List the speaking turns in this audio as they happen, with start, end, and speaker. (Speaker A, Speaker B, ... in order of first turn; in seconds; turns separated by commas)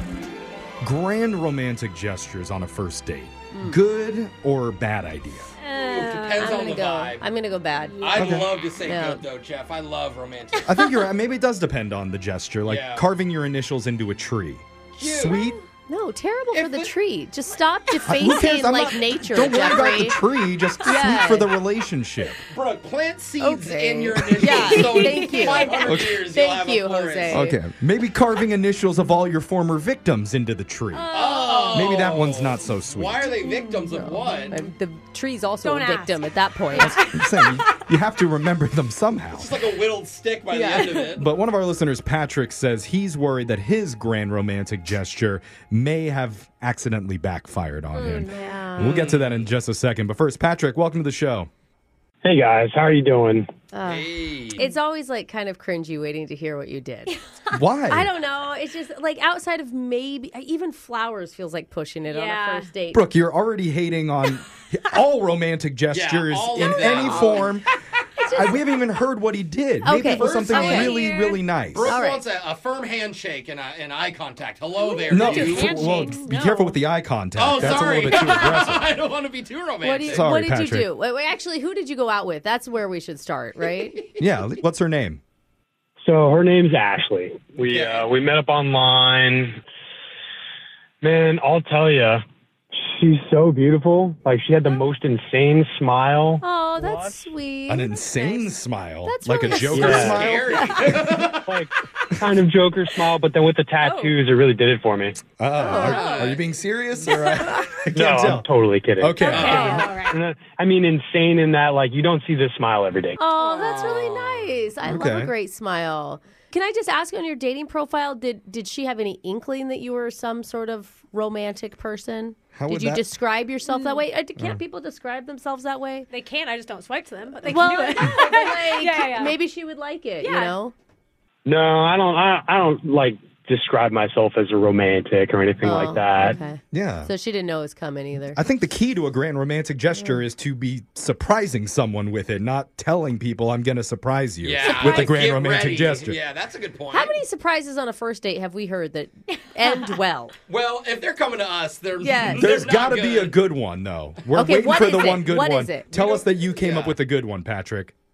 Speaker A: 0.8-5.5, Speaker B: 3.5-3.8, Speaker C: 5.6-6.8, Speaker D: 5.7-7.2, Speaker B: 6.4-8.2, Speaker C: 7.8-8.2, Speaker D: 8.0-11.0, Speaker A: 8.1-8.5, Speaker B: 8.8-9.2, Speaker A: 10.6-15.6, Speaker D: 12.7-13.1, Speaker D: 14.9-15.4, Speaker B: 15.9-20.2, Speaker D: 16.5-16.9, Speaker A: 18.1-22.4, Speaker B: 20.8-21.5, Speaker D: 22.5-27.5, Speaker B: 23.4-27.6, Speaker C: 24.6-25.9, Speaker A: 25.8-26.2, Speaker A: 27.3-31.1, Speaker C: 30.9-31.9, Speaker D: 31.1-34.6, Speaker A: 31.7-33.3, Speaker B: 33.8-37.1, Speaker C: 35.6-37.7, Speaker A: 36.7-39.6, Speaker D: 39.3-41.3, Speaker B: 40.5-41.0, Speaker A: 41.1-51.5, Speaker B: 47.9-49.0, Speaker C: 48.4-48.7, Speaker D: 48.8-49.5, Speaker E: 52.2-53.5, Speaker B: 53.7-57.1, Speaker D: 53.8-54.7, Speaker A: 57.5-58.1, Speaker B: 57.9-63.0, Speaker C: 62.0-62.7, Speaker A: 62.9-67.7, Speaker D: 65.9-67.5, Speaker B: 66.6-67.5, Speaker B: 68.2-68.7, Speaker A: 68.2-72.0, Speaker B: 69.8-71.1, Speaker D: 70.2-71.0, Speaker C: 70.6-71.5, Speaker D: 71.7-75.8, Speaker B: 71.8-72.2, Speaker C: 74.8-76.2, Speaker B: 75.0-76.8, Speaker A: 75.1-78.9, Speaker D: 77.3-80.3, Speaker B: 79.8-84.0, Speaker A: 80.0-80.9, Speaker A: 84.2-85.2, Speaker E: 86.0-89.6, Speaker D: 87.6-88.1, Speaker E: 91.0-92.2, Speaker E: 92.8-97.3, Speaker B: 96.4-98.0, Speaker A: 97.7-100.9, Speaker C: 98.2-98.4, Speaker B: 99.0-101.0, Speaker E: 99.7-100.3, Speaker D: 99.7-101.5, Speaker E: 101.4-105.2, Speaker C: 103.8-104.1, Speaker A: 105.4-108.5, Speaker B: 105.5-106.4, Speaker D: 105.7-106.5, Speaker B: 107.1-107.7, Speaker E: 107.9-113.2, Speaker A: 109.0-109.9, Speaker C: 109.2-110.2, Speaker D: 109.2-110.0, Speaker B: 109.4-109.9, Speaker B: 113.2-126.1, Speaker C: 113.4-113.8, Speaker D: 113.6-114.5, Speaker A: 114.8-115.3, Speaker A: 122.5-123.0, Speaker C: 123.7-124.0, Speaker A: 124.4-124.6, Speaker C: 126.1-129.4, Speaker B: 127.4-130.7, Speaker C: 130.2-130.6, Speaker E: 131.4-136.4, Speaker B: 135.6-138.4, Speaker A: 136.7-137.1, Speaker A: 138.3-146.2, Speaker D: 144.4-147.2, Speaker B: 144.6-145.1, Speaker B: 146.9-150.3, Speaker D: 150.5-153.4, Speaker B: 152.0-152.5, Speaker A: 152.4-157.9, Speaker B: 154.3-155.9, Speaker D: 155.9-157.0